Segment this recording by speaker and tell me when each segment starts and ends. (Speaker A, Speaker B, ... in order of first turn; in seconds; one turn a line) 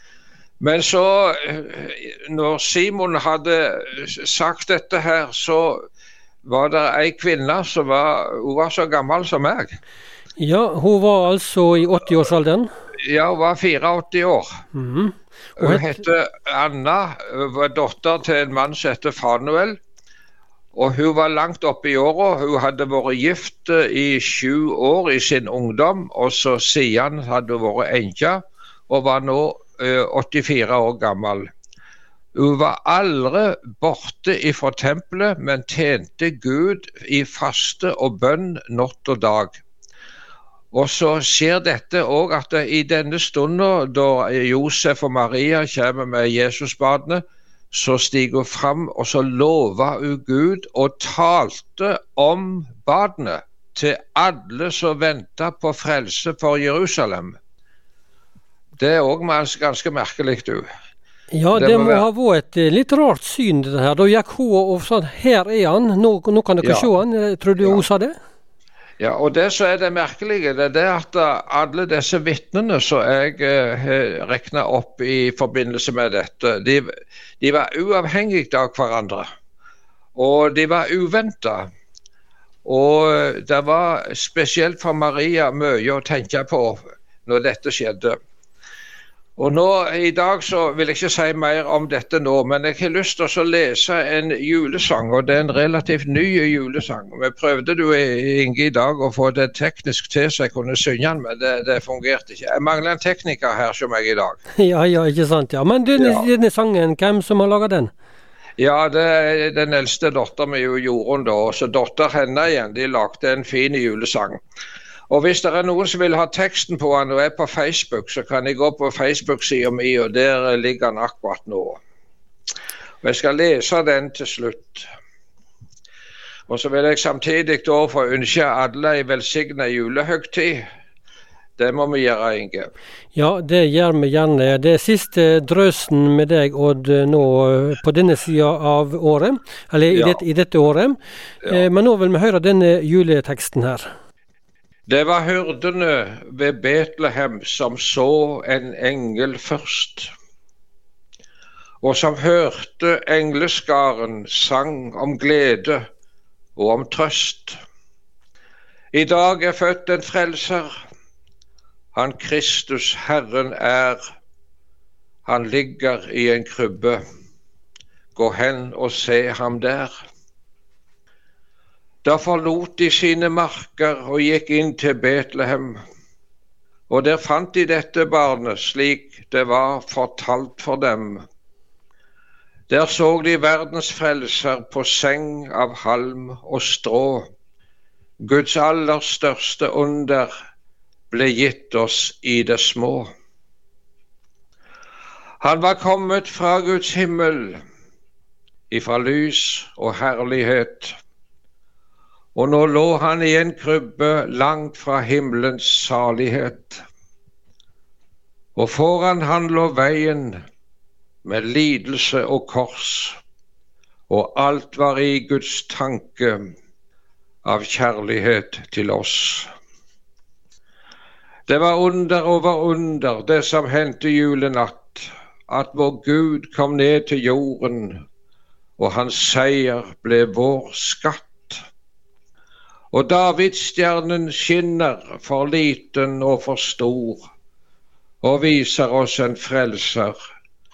Speaker A: 0.6-5.8
Speaker A: 6.4-9.8
Speaker B: 10.4-12.7
Speaker A: 13.0-14.6
Speaker B: 14.7-15.9
Speaker A: 15.6-19.8
Speaker A: 20.7-31.5
Speaker A: 32.3-39.6
Speaker A: 40.7-57.4
Speaker A: 58.8-60.7
Speaker B: 61.3-68.1
Speaker A: 61.5-62.0
Speaker A: 66.6-66.9
Speaker A: 69.0-79.2
Speaker A: 80.1-81.7
Speaker A: 82.6-88.2
Speaker A: 89.4-104.4
Speaker B: 104.6-107.9
Speaker A: 105.9-106.3
Speaker A: 108.6-114.4
Speaker A: 115.1-121.8
Speaker A: 123.0-124.9
Speaker A: 126.5-130.6
Speaker A: 131.6-132.7
Speaker B: 133.1-143.9
Speaker A: 139.9-140.2
Speaker A: 144.9-150.1
Speaker A: 151.8-155.8
Speaker A: 156.6-157.6
Speaker A: 158.9-160.7
Speaker A: 161.9-164.0
Speaker A: 165.2-167.0
Speaker A: 168.1-169.9
Speaker A: 172.0-175.8
Speaker A: 176.9-181.2
Speaker A: 182.7-187.2
Speaker A: 188.2-190.3
Speaker A: 191.1-193.1
Speaker A: 195.4-197.6
Speaker A: 198.7-200.9
Speaker A: 202.3-206.8
Speaker A: 208.6-210.4
Speaker A: 211.2-213.2
Speaker A: 214.1-216.4
Speaker A: 217.4-219.5
Speaker A: 221.5-228.0
Speaker A: 228.8-231.6
Speaker A: 232.9-237.2
Speaker A: 238.2-240.2